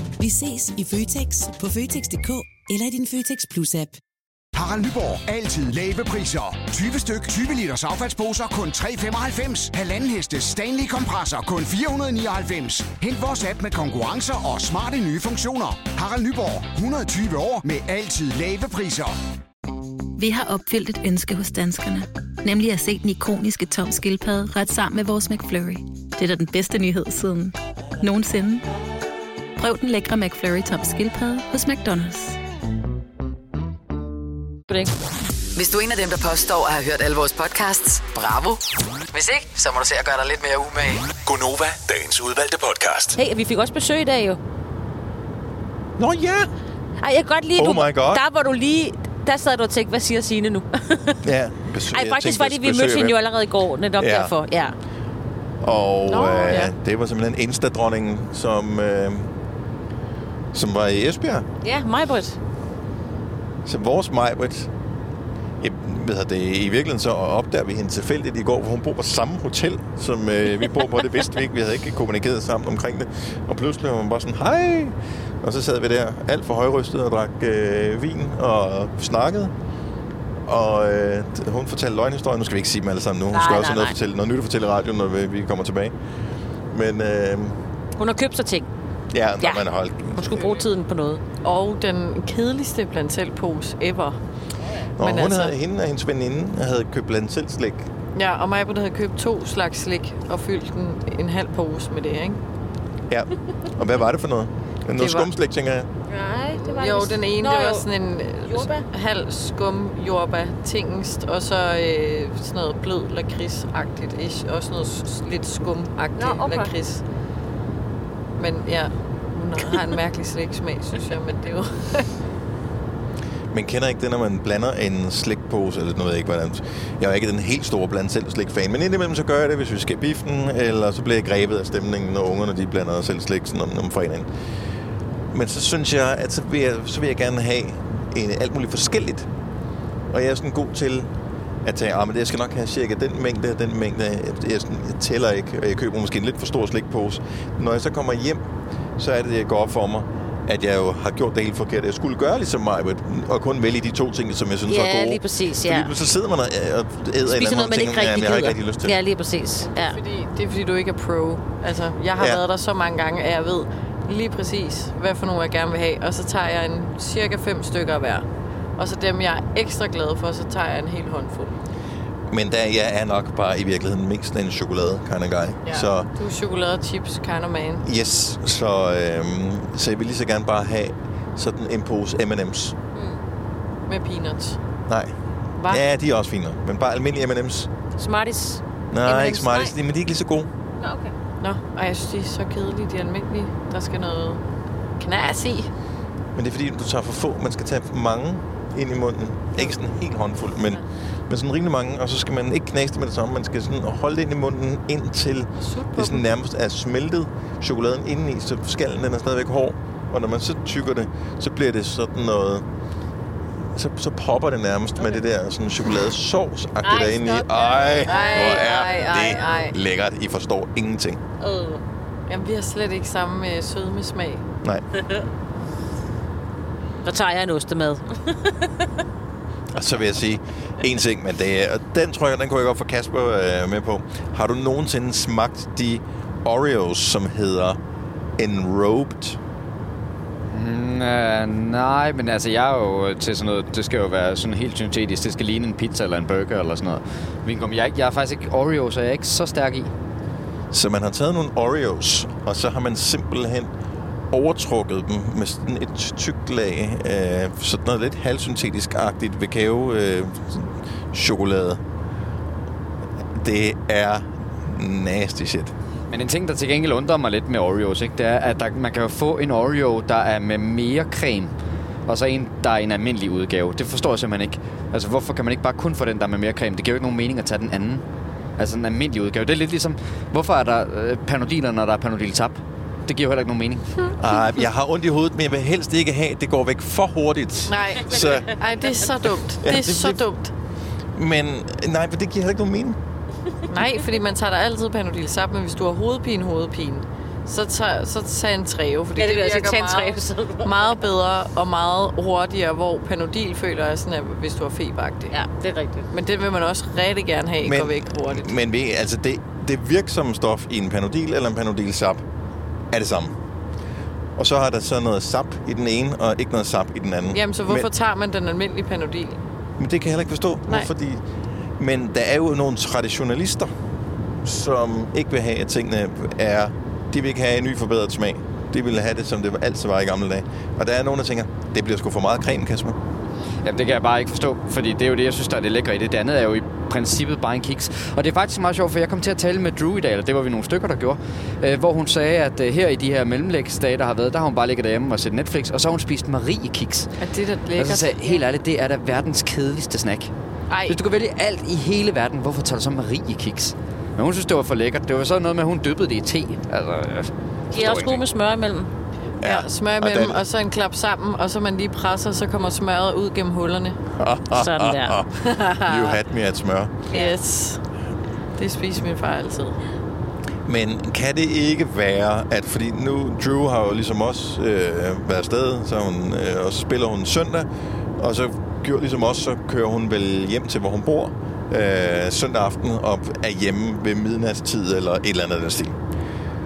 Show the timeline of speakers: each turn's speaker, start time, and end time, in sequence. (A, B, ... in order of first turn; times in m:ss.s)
0:00.2-0:04.0 A
0:04.5-0:19.1 B
0:20.2-0:28.6 C
0:29.6-0:32.4 C
0:35.5-0:38.6 D
0:39.1-0:41.1 D
0:41.2-0:43.2 E
0:43.2-0:44.4 F
0:46.0-0:46.5 G
0:47.0-0:51.2 F
0:47.6-0:48.2 G
0:51.2-0:53.2 G
0:51.9-0:54.7 F
0:54.0-0:54.3 G
0:55.6-0:59.3 G
0:56.1-0:56.7 F
1:00.5-1:01.4 G
1:01.6-1:02.4 F
1:03.6-1:04.7 G
1:05.6-1:19.5 G
1:20.5-1:25.9 G
1:23.3-1:23.9 F
1:26.7-1:27.6 G
1:28.0-1:28.7 F
1:29.1-1:30.5 G
1:29.4-1:31.2 F
1:31.4-1:34.2 H
1:35.0-1:37.9 G
1:35.0-1:35.5 H
1:38.1-1:42.4 H
1:43.1-1:45.9 G
1:45.0-1:45.3 H
1:46.1-1:47.8 F
1:46.6-1:57.0 H
1:48.4-1:48.8 F
1:56.2-1:56.7 F
1:58.4-2:02.1 H
2:03.5-2:14.3 G
2:15.3-2:19.3 G
2:20.1-2:21.1 G
2:21.6-2:28.4 G
2:29.0-2:39.0 G
2:34.7-2:35.9 F
2:37.2-2:40.0 F
2:39.7-2:48.2 H
2:42.2-2:42.4 G
2:48.8-2:51.6 H
2:52.3-2:56.1 G
2:55.6-2:57.8 H
2:57.8-3:02.8 G
3:03.9-3:04.6 H
3:04.9-3:05.1 G
3:05.6-3:05.8 H
3:05.7-3:07.7 G
3:08.0-3:09.7 F
3:08.9-3:10.5 G
3:10.8-3:11.1 F
3:11.4-3:14.4 H
3:15.0-3:15.7 H
3:16.4-3:32.6 G
3:25.6-3:26.2 H
3:33.7-3:41.2 G
3:36.8-3:39.6 F
3:38.0-3:39.7 H
3:41.4-3:41.8 F
3:42.3-3:44.4 H
3:47.0-3:48.3 F
3:49.7-3:57.8 G
3:58.4-3:59.4 G
4:00.5-4:09.9 I
4:10.7-4:13.7 G
4:14.3-4:21.8 G
4:23.4-4:25.7 G
4:26.1-4:31.5 I
4:32.1-4:38.0 I
4:38.6-4:43.8 I
4:44.2-4:48.6 G
4:47.7-4:50.5 H
4:49.6-4:50.2 G
4:51.1-4:53.0 G
4:53.7-5:05.3 H
4:59.2-5:01.0 F
5:05.3-5:06.0 F
5:06.1-5:08.5 H
5:07.6-5:12.2 G
5:12.9-5:13.4 G
5:14.4-5:17.9 G
5:17.3-5:19.4 H
5:19.8-5:21.2 G
5:21.8-5:23.7 G
5:24.4-5:33.0 G
5:33.6-5:47.1 I
5:47.2-5:48.4 H
5:47.8-5:50.3 I
5:50.7-5:51.0 H
5:50.9-5:58.2 I
5:57.7-5:58.9 F
5:59.4-6:00.4 G
5:59.4-6:04.0 H
6:04.1-6:07.0 G
6:04.5-6:05.2 F
6:05.4-6:06.2 H
6:07.1-6:07.4 F
6:07.1-6:07.8 H
6:08.6-6:09.8 H
6:10.6-6:26.0 G